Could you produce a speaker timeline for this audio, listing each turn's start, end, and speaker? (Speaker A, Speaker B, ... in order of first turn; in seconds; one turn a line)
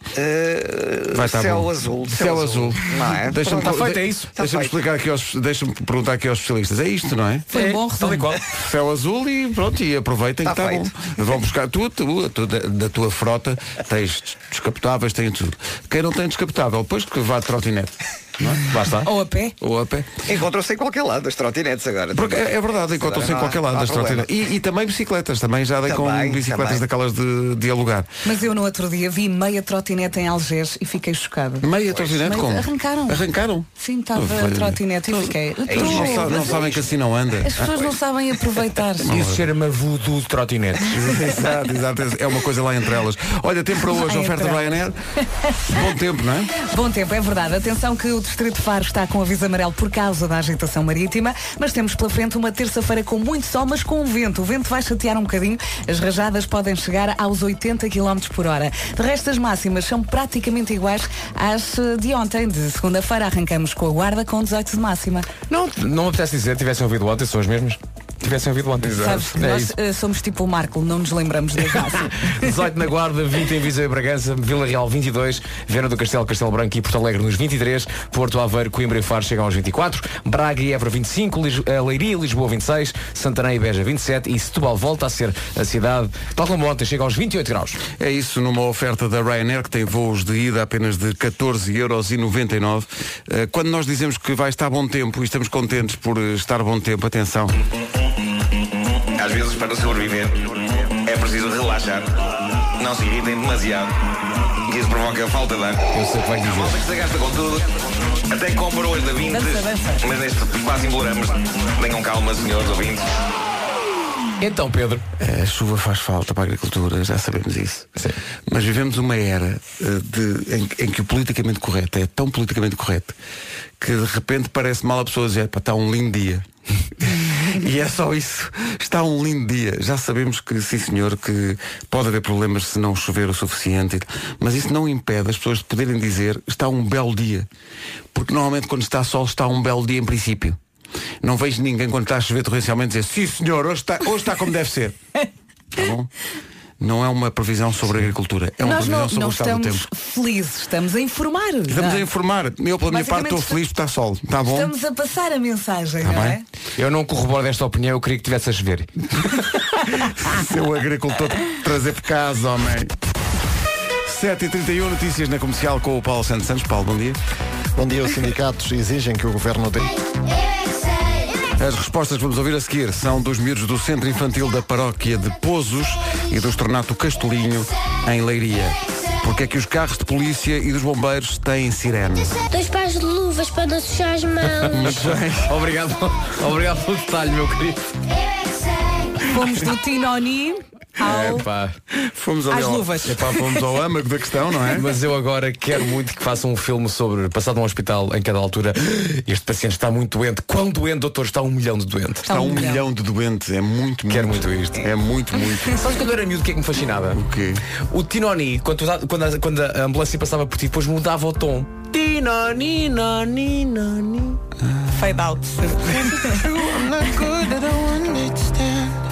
Speaker A: 0.2-4.8
Speaker B: 1.1-7.5
Speaker C: 3.5-4.3
Speaker D: 7.5-8.3
Speaker C: 7.5-8.4
Speaker B: 8.5-19.0
Speaker A: 10.4-10.9
Speaker C: 18.7-19.0
Speaker D: 19.0-19.6
Speaker B: 19.6-20.2
Speaker A: 20.3-24.3
Speaker B: 22.1-28.1
Speaker A: 25.9-26.8
Speaker D: 28.2-31.7
Speaker B: 31.6-37.9
Speaker D: 32.2-33.2
Speaker D: 33.8-36.6
Speaker A: 35.7-36.9
Speaker D: 37.4-39.2
Speaker B: 39.1-39.5
Speaker C: 39.1-41.0
Speaker B: 40.9-45.0
Speaker D: 43.9-44.8
Speaker B: 45.7-46.5
Speaker D: 46.6-65.3
Speaker C: 65.5-69.8
Speaker D: 69.0-72.5
Speaker C: 71.7-87.8
Speaker B: 88.0-97.6
Speaker E: 99.2-102.1
Speaker E: 102.8-103.9
Speaker E: 104.7-105.8
Speaker C: 105.9-106.8
Speaker E: 106.4-113.1
Speaker D: 109.3-110.2
Speaker C: 114.4-115.0
Speaker B: 115.2-123.2
Speaker B: 123.8-137.5
Speaker B: 138.1-140.6
Speaker B: 141.2-145.0
Speaker B: 145.7-146.1
Speaker B: 146.8-149.9
Speaker D: 148.6-152.1
Speaker B: 151.7-154.7
Speaker D: 152.9-153.6
Speaker D: 154.5-156.4
Speaker B: 156.0-156.4
Speaker C: 156.8-158.9
Speaker B: 160.0-162.9
Speaker B: 164.1-167.2
Speaker F: 167.8-169.9
Speaker B: 171.6-182.4
Speaker G: 182.4-184.9
Speaker B: 184.7-185.6
Speaker C: 185.4-187.9
Speaker D: 189.3-191.5
Speaker C: 191.1-191.8
Speaker B: 191.9-194.9
Speaker D: 192.5-193.6
Speaker C: 194.7-202.3
Speaker D: 202.3-202.8
Speaker B: 202.3-205.8
Speaker C: 204.1-204.9
Speaker C: 205.7-207.2
Speaker B: 207.1-207.6
Speaker C: 207.9-214.4
Speaker B: 214.6-215.2
Speaker D: 215.0-216.4
Speaker B: 216.2-218.3